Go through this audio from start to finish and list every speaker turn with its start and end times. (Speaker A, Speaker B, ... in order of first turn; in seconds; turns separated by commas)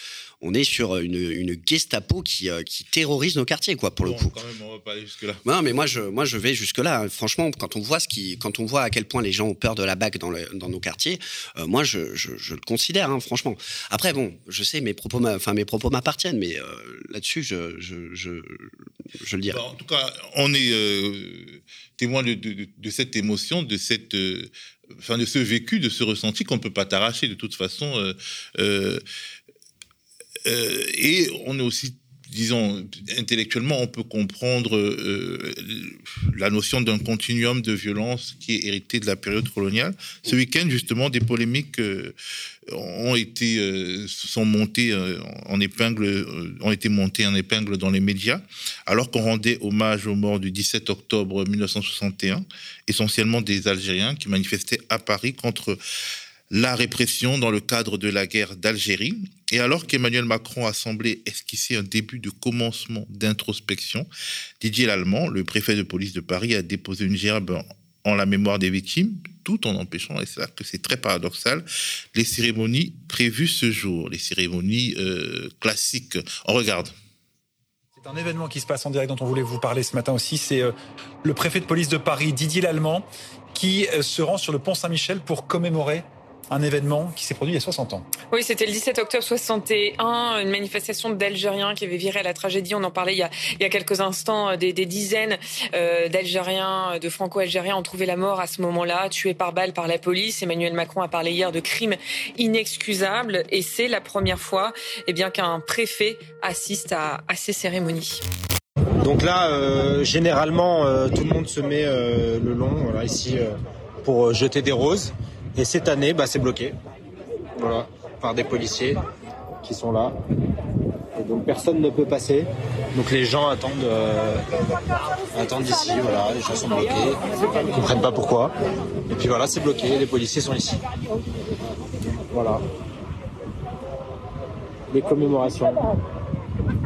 Speaker A: 0.4-4.3, Speaker B: 4.0-5.4, Speaker A: 5.5-19.6, Speaker B: 19.5-29.0, Speaker B: 30.5-42.1, Speaker B: 42.7-55.8, Speaker B: 56.5-64.1, Speaker B: 64.6-76.9, Speaker C: 78.0-88.1, Speaker D: 88.3-108.2, Speaker E: 109.0-116.7, Speaker E: 117.6-119.0, Speaker E: 119.6-120.2, Speaker E: 121.2-124.4, Speaker E: 125.3-128.5, Speaker E: 129.1-130.8, Speaker E: 132.3-132.6, Speaker E: 134.9-135.8